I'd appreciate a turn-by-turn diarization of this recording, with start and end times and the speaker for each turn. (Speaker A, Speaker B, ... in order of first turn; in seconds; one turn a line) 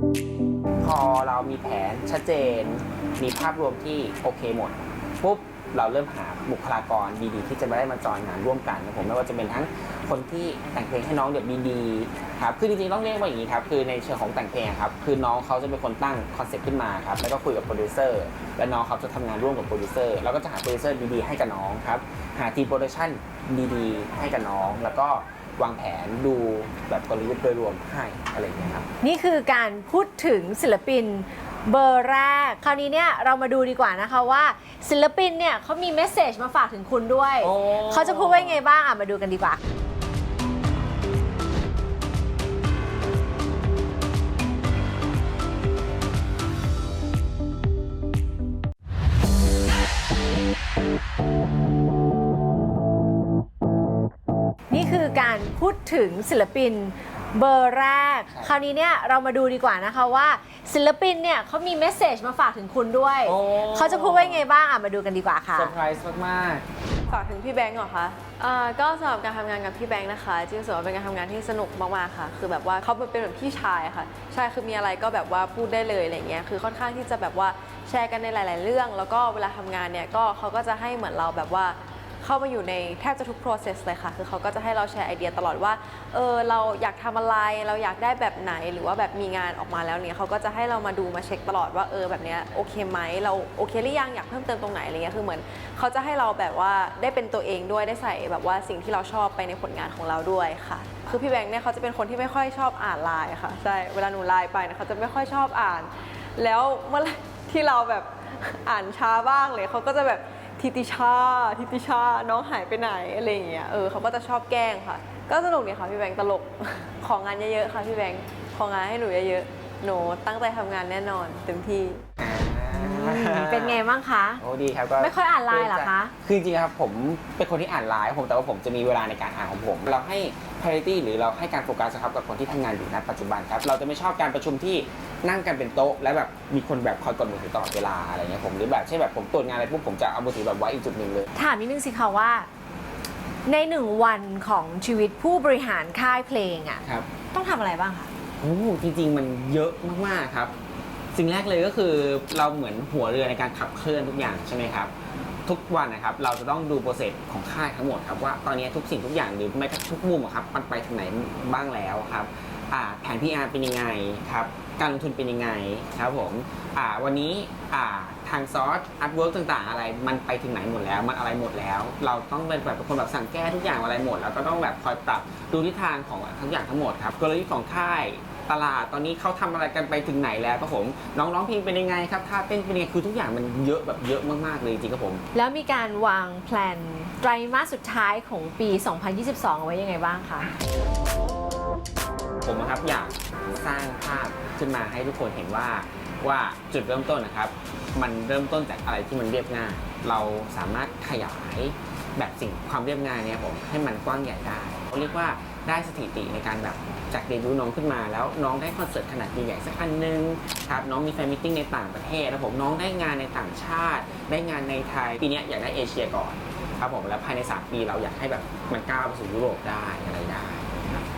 Speaker A: 0.8-28.9
Speaker B: 29.0-39.6
Speaker A: 37.4-38.6
Speaker B: 54.7-65.7
Speaker A: 63.2-64.5
Speaker A: 65.5-66.7
Speaker C: 67.1-122.0
Speaker A: 122.2-123.8
Speaker B: 122.7-124.4
Speaker A: 124.4-141.3
Speaker B: 125.0-126.1
Speaker B: 141.3-142.5
Speaker B: 143.4-148.1
Speaker A: 148.4-150.5
Speaker A: 151.1-154.9
Speaker A: 155.4-185.2
Speaker B: 185.3-190.5
Speaker A: 192.4-221.0